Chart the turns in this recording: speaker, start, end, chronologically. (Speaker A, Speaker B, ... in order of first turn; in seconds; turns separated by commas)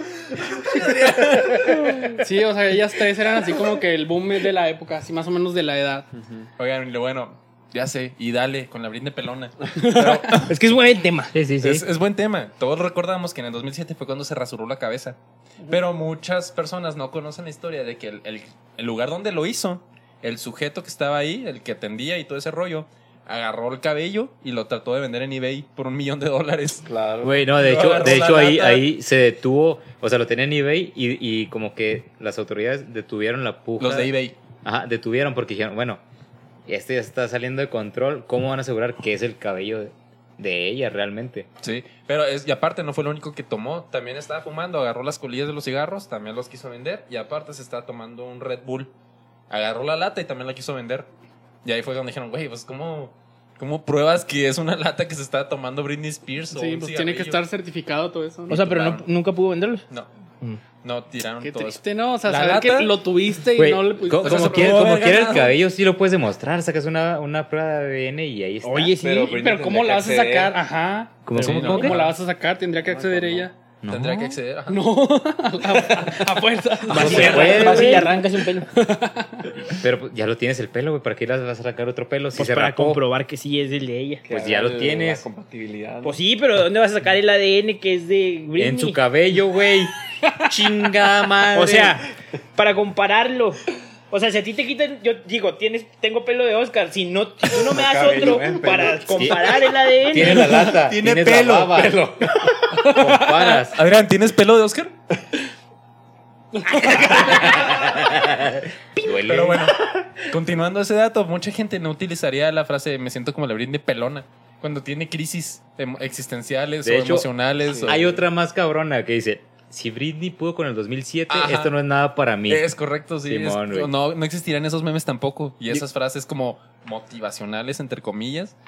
Speaker A: 0.6-2.0, Speaker B: 0.8-6.1, Speaker C: 6.2-6.5, Speaker A: 6.6-10.5, Speaker D: 10.1-11.3, Speaker E: 11.3-11.9, Speaker A: 11.6-15.2, Speaker A: 15.7-26.9, Speaker C: 26.8-27.5, Speaker E: 27.2-34.1, Speaker A: 27.5-28.9, Speaker A: 33.8-34.4, Speaker E: 34.6-36.0, Speaker E: 36.7-41.5, Speaker A: 41.6-48.9, Speaker A: 49.5-51.1, Speaker A: 51.6-57.4, Speaker B: 56.5-58.6, Speaker D: 58.5-59.8, Speaker A: 58.5-59.0, Speaker A: 60.8-62.9, Speaker B: 61.4-64.9, Speaker E: 63.5-69.0, Speaker A: 64.2-65.6, Speaker D: 68.6-69.4, Speaker C: 69.0-70.6, Speaker B: 69.3-73.5, Speaker E: 71.2-72.0, Speaker A: 71.4-72.2, Speaker D: 71.4-71.6, Speaker C: 72.8-73.5, Speaker E: 73.8-74.3, Speaker A: 73.9-74.9, Speaker B: 74.7-78.0, Speaker D: 76.9-78.7, Speaker E: 76.9-78.1, Speaker C: 77.0-77.4, Speaker B: 78.7-79.5, Speaker E: 79.8-83.0, Speaker D: 82.3-84.2, Speaker C: 84.2-86.2, Speaker E: 84.3-85.2, Speaker D: 86.0-89.0, Speaker E: 88.6-92.0, Speaker D: 91.5-100.6, Speaker C: 97.5-99.4, Speaker E: 99.1-99.4, Speaker E: 100.0-102.1, Speaker A: 100.2-102.1, Speaker B: 102.8-103.6, Speaker E: 102.8-103.8, Speaker A: 103.7-104.9, Speaker B: 106.5-107.6, Speaker D: 106.7-107.4, Speaker E: 107.1-109.7, Speaker A: 109.2-118.1, Speaker E: 116.8-117.3, Speaker C: 117.7-118.0, Speaker E: 117.8-122.7, Speaker A: 121.3-121.7, Speaker A: 122.5-128.5, Speaker E: 123.3-123.9